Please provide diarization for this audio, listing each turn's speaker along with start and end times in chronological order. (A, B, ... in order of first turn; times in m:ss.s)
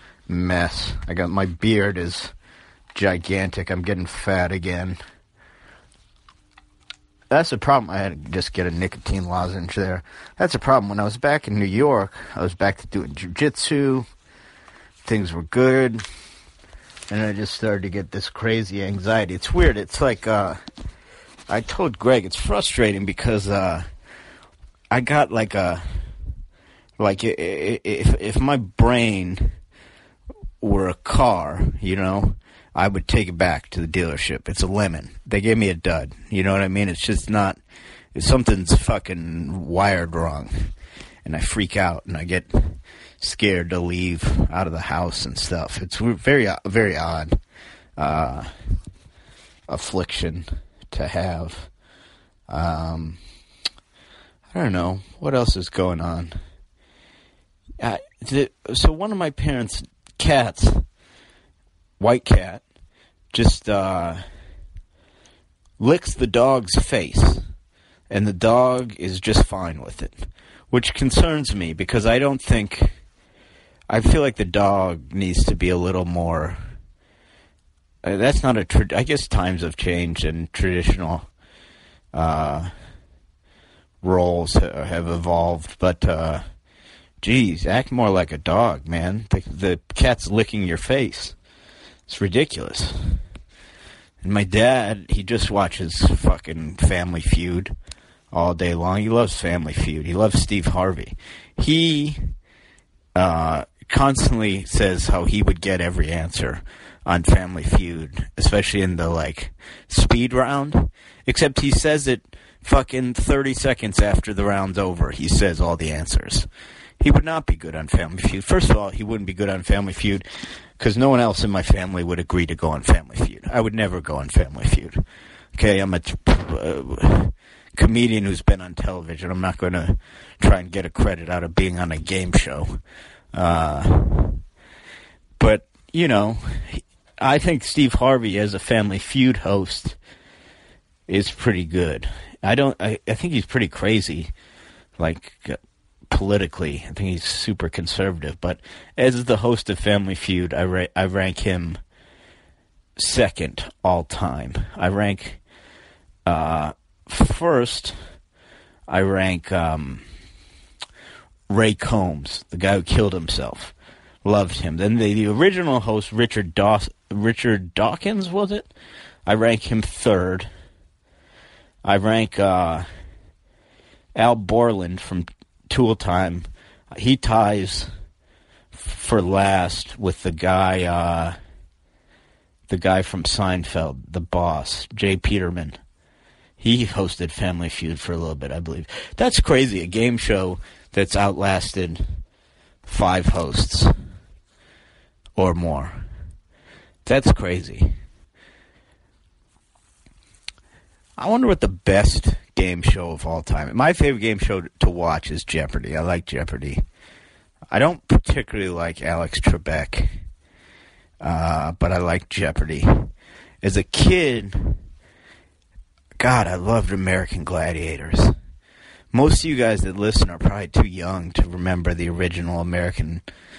0:00.3-0:02.3 A
0:02.9-0:05.0 A
0:07.3-0:14.1 A
0:15.0-0:16.0 A
0:17.1-0:20.6 A
0:21.5-0:23.9 A
0:24.9-0:25.8 A
0:27.0-0:29.5 A
0:30.6-0:37.6 A
0:38.2-0:40.7 A
0:41.2-0:47.4 A
0:48.0-0:48.5 A
0:49.7-0:51.7 A
0:52.5-0:53.2 A
0:54.5-0:56.3 A
0:57.8-1:00.8 A
1:02.0-1:02.6 A
1:03.3-1:04.2 A
1:05.8-1:07.4 A
1:08.1-1:10.2 A
1:10.7-1:12.9 A
1:13.9-1:16.6 A
1:18.0-1:21.3 A
1:22.1-1:22.7 A
1:24.0-1:26.4 A
1:27.2-1:31.4 A
1:32.1-1:33.2 A
1:34.2-1:37.7 A
1:38.3-1:42.2 A
1:43.2-1:56.5 A
1:57.0-2:00.3 A
2:00.8-2:05.0 A
2:05.6-2:12.8 A
2:13.3-2:14.4 A
2:15.4-2:20.0 A
2:21.1-2:24.3 A
2:25.0-2:25.6 A
2:26.1-2:31.8 A
2:33.0-2:35.4 A
2:36.3-2:38.0 A
2:38.9-2:40.0 A
2:41.5-2:48.7 A
2:49.3-2:50.5 A
2:51.8-2:52.9 A
2:54.2-2:57.9 A
2:58.7-3:01.4 A
3:02.7-3:05.8 A
3:06.6-3:12.0 A
3:12.9-3:13.9 A
3:15.4-3:16.0 A
3:17.1-3:18.0 A
3:21.2-3:26.8 A
3:27.7-3:30.2 A
3:31.2-3:33.1 A
3:33.6-3:34.8 A
3:36.2-3:38.4 A
3:39.1-3:43.2 A